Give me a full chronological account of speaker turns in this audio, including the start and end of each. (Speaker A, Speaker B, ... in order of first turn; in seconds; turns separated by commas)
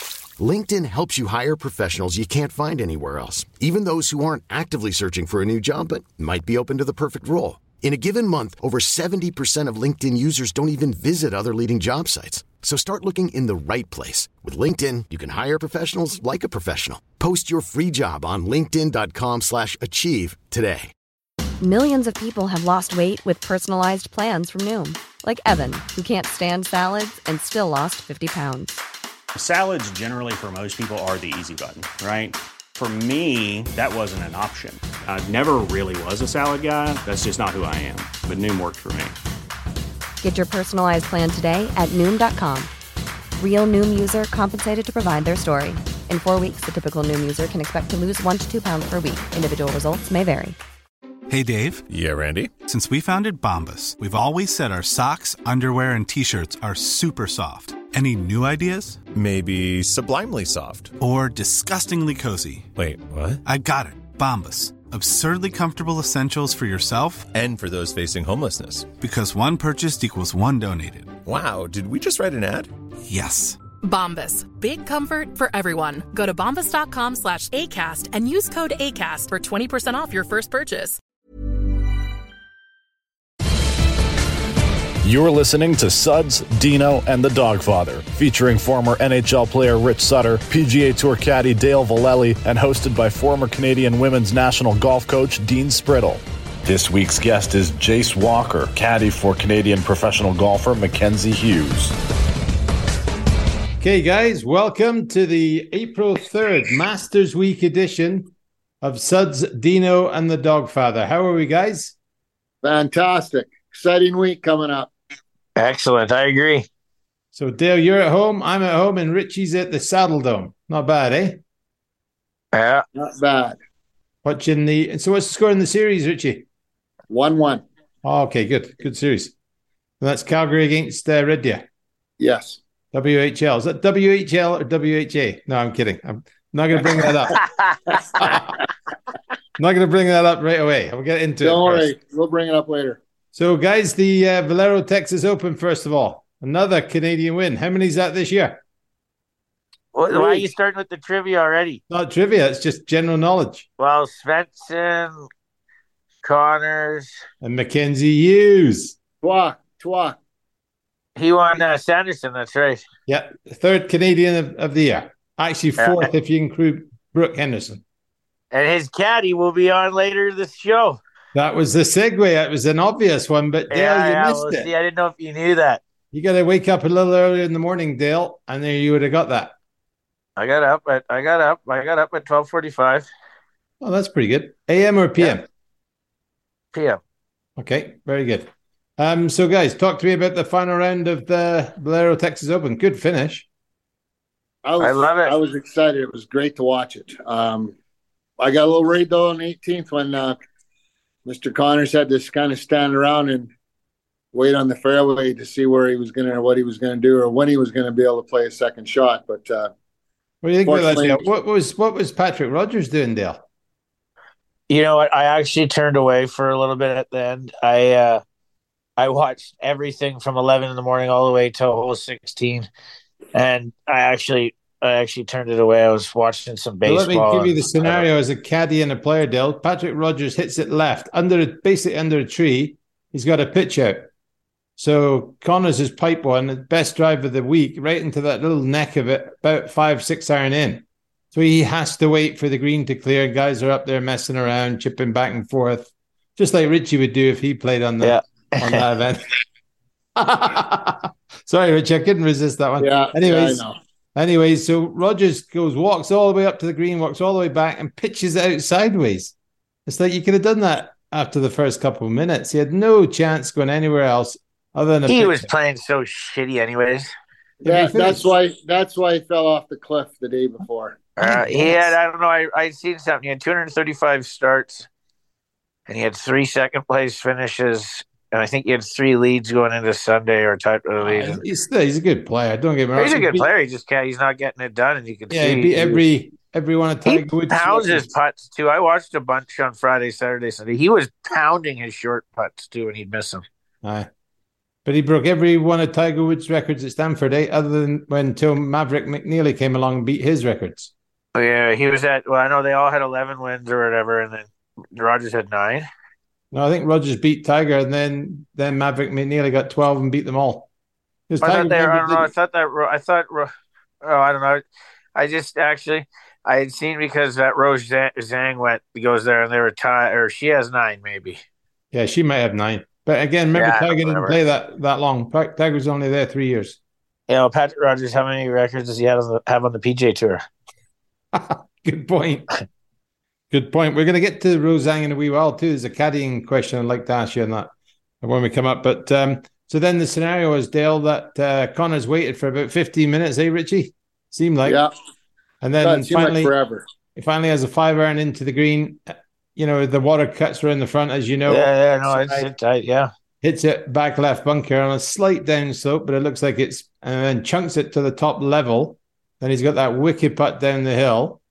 Speaker A: 0.4-20.9, Speaker B: 21.6-28.8, Speaker C: 29.3-39.1, Speaker B: 40.2-42.7, Speaker B: 43.4-50.5, Speaker D: 51.3-51.8, Speaker E: 51.9-52.5, Speaker D: 52.6-59.0, Speaker E: 59.1-61.0, Speaker D: 61.0-62.7, Speaker E: 62.8-63.4, Speaker D: 63.4-67.3, Speaker E: 67.3-68.9, Speaker D: 69.0-71.2, Speaker E: 71.2-72.7, Speaker D: 73.0-73.6, Speaker F: 73.8-81.0, Speaker G: 85.0-102.0, Speaker H: 103.8-112.0, Speaker I: 112.6-114.9, Speaker J: 115.6-116.7, Speaker H: 117.3-121.4, Speaker J: 122.5-122.8, Speaker I: 122.9-123.6, Speaker H: 124.2-126.5, Speaker I: 127.1-127.6, Speaker H: 128.0-129.3, Speaker H: 130.0-131.6, Speaker I: 132.2-132.6, Speaker H: 132.9-137.4, Speaker J: 137.4-138.0, Speaker I: 138.0-138.4, Speaker H: 138.1-138.6, Speaker H: 139.6-141.9, Speaker I: 141.4-143.0, Speaker H: 143.3-148.6, Speaker J: 149.9-151.8, Speaker I: 150.1-150.5, Speaker H: 151.9-153.7, Speaker J: 153.8-155.3, Speaker J: 156.2-157.1, Speaker H: 157.4-158.9, Speaker I: 159.2-160.2, Speaker J: 161.2-162.8, Speaker H: 163.1-167.8, Speaker J: 165.8-166.1, Speaker J: 168.5-171.0, Speaker H: 171.3-174.7, Speaker J: 173.7-175.8, Speaker H: 176.1-179.5, Speaker J: 180.4-183.1, Speaker H: 183.8-185.4, Speaker J: 186.7-187.0, Speaker H: 187.6-193.4, Speaker I: 194.6-197.7, Speaker J: 194.8-195.3, Speaker I: 198.4-200.4, Speaker I: 201.2-203.5, Speaker I: 204.3-209.7, Speaker H: 210.4-213.4, Speaker I: 210.6-211.3, Speaker J: 214.7-218.2, Speaker J: 219.0-222.7, Speaker J: 223.3-228.1, Speaker H: 226.8-234.1, Speaker H: 234.8-249.2, Speaker J: 248.0-248.8, Speaker H: 250.2-253.6, Speaker I: 252.8-253.7, Speaker H: 254.1-259.3, Speaker H: 259.9-265.5, Speaker J: 265.1-267.1, Speaker I: 267.6-271.1, Speaker H: 267.6-268.2, Speaker J: 271.2-274.9, Speaker H: 271.2-271.8, Speaker J: 275.9-281.4, Speaker H: 281.0-283.5, Speaker J: 282.9-286.0, Speaker H: 285.3-288.1, Speaker J: 287.1-293.4, Speaker H: 293.8-294.1, Speaker H: 294.9-300.9, Speaker J: 301.3-305.9, Speaker H: 306.5-310.7, Speaker H: 311.3-312.3, Speaker J: 311.4-313.5, Speaker J: 314.0-314.6, Speaker J: 315.1-321.4, Speaker H: 321.9-326.8, Speaker J: 323.5-324.4, Speaker J: 327.3-330.4, Speaker H: 331.3-332.5, Speaker H: 333.5-337.7, Speaker H: 338.2-344.8, Speaker I: 344.6-344.9, Speaker H: 345.6-346.5, Speaker I: 345.8-346.9, Speaker H: 347.1-351.7, Speaker J: 351.5-353.1, Speaker I: 352.1-352.4, Speaker H: 353.4-361.4